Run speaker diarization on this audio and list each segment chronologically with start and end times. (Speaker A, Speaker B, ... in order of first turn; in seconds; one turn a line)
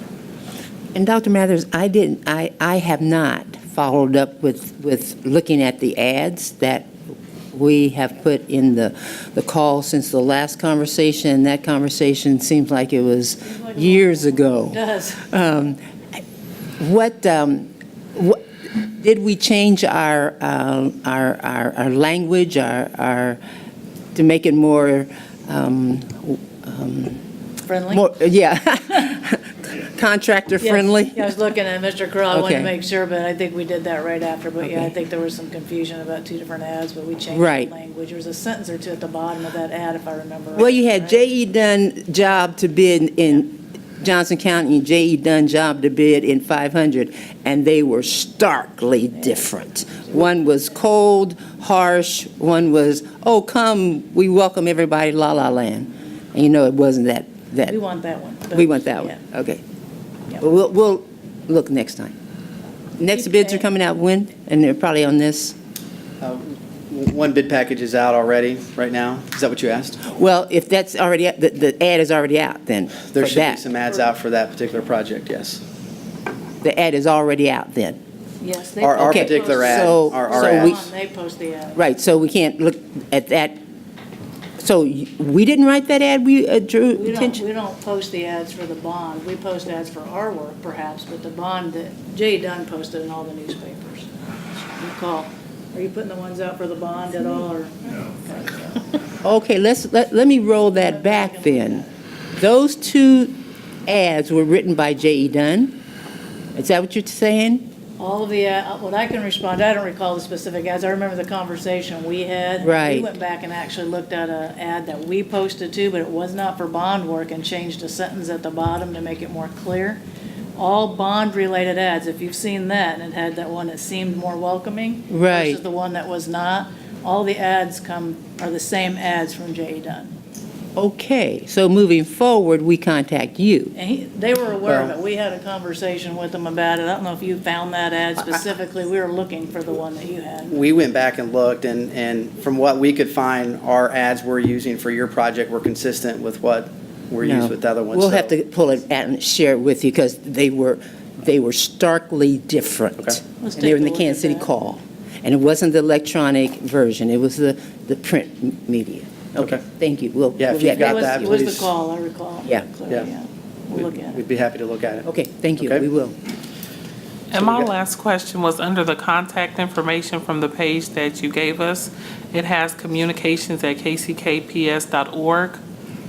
Speaker A: 0.9-6.9
Speaker A: 7.5-15.8
Speaker B: 13.4-15.3
Speaker A: 16.8-23.4
Speaker A: 24.1-27.2
Speaker B: 27.7-28.1
Speaker A: 27.9-31.3
Speaker B: 30.6-41.2
Speaker A: 32.3-32.7
Speaker A: 34.6-34.9
Speaker A: 37.3-37.7
Speaker A: 40.5-57.8
Speaker B: 57.6-59.2
Speaker A: 58.5-59.6
Speaker A: 60.4-62.1
Speaker A: 63.0-65.5
Speaker B: 63.1-63.6
Speaker C: 66.2-70.0
Speaker A: 70.0-73.6
Speaker C: 73.1-75.6
Speaker A: 76.6-78.0
Speaker B: 78.4-81.8
Speaker C: 78.8-80.8
Speaker A: 79.0-80.9
Speaker A: 81.8-83.6
Speaker A: 84.6-87.4
Speaker B: 86.9-99.0
Speaker A: 99.2-105.8
Speaker B: 100.7-101.9
Speaker A: 106.5-107.7
Speaker B: 108.0-120.0
Speaker A: 112.6-113.1
Speaker B: 120.5-130.1
Speaker A: 125.1-125.6
Speaker A: 130.8-133.7
Speaker B: 133.7-140.6
Speaker C: 134.6-134.9
Speaker C: 140.5-148.3
Speaker A: 147.2-161.4
Speaker B: 153.4-154.5
Speaker C: 159.4-159.6
Speaker C: 160.4-161.7
Speaker B: 160.7-164.2
Speaker C: 163.7-165.8
Speaker A: 165.1-166.2
Speaker D: 167.3-175.6
Speaker C: 167.3-167.7